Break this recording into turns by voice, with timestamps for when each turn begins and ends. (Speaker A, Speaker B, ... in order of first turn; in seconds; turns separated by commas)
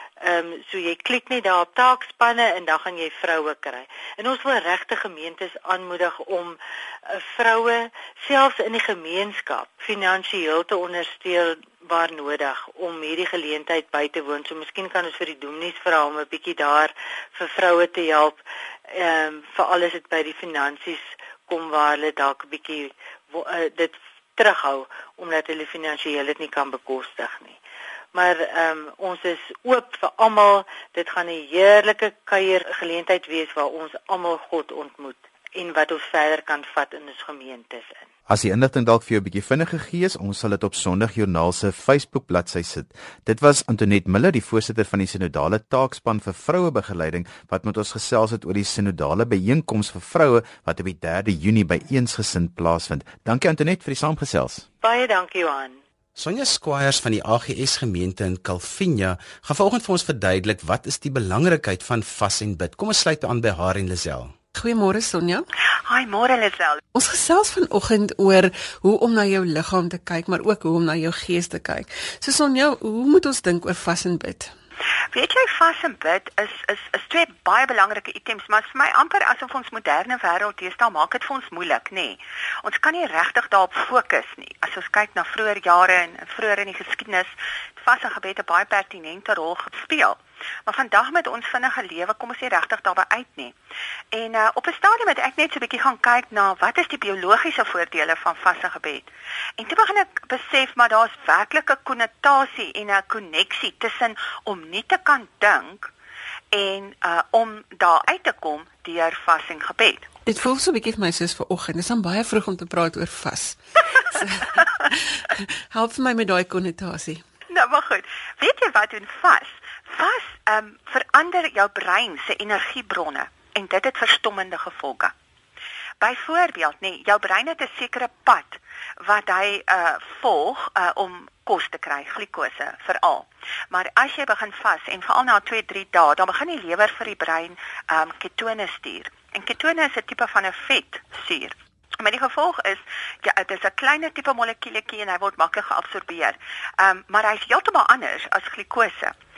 Speaker A: 0.2-27.6, Speaker A: 28.1-38.1, Speaker B: 38.3-54.6, Speaker A: 54.8-55.8, Speaker C: 56.1-64.3, Speaker D: 64.5-65.5, Speaker E: 65.9-66.8, Speaker D: 66.9-74.5, Speaker E: 75.1-93.5, Speaker E: 94.1-105.9, Speaker E: 106.5-110.1, Speaker D: 110.2-117.2, Speaker E: 117.5-125.1, Speaker E: 126.0-149.1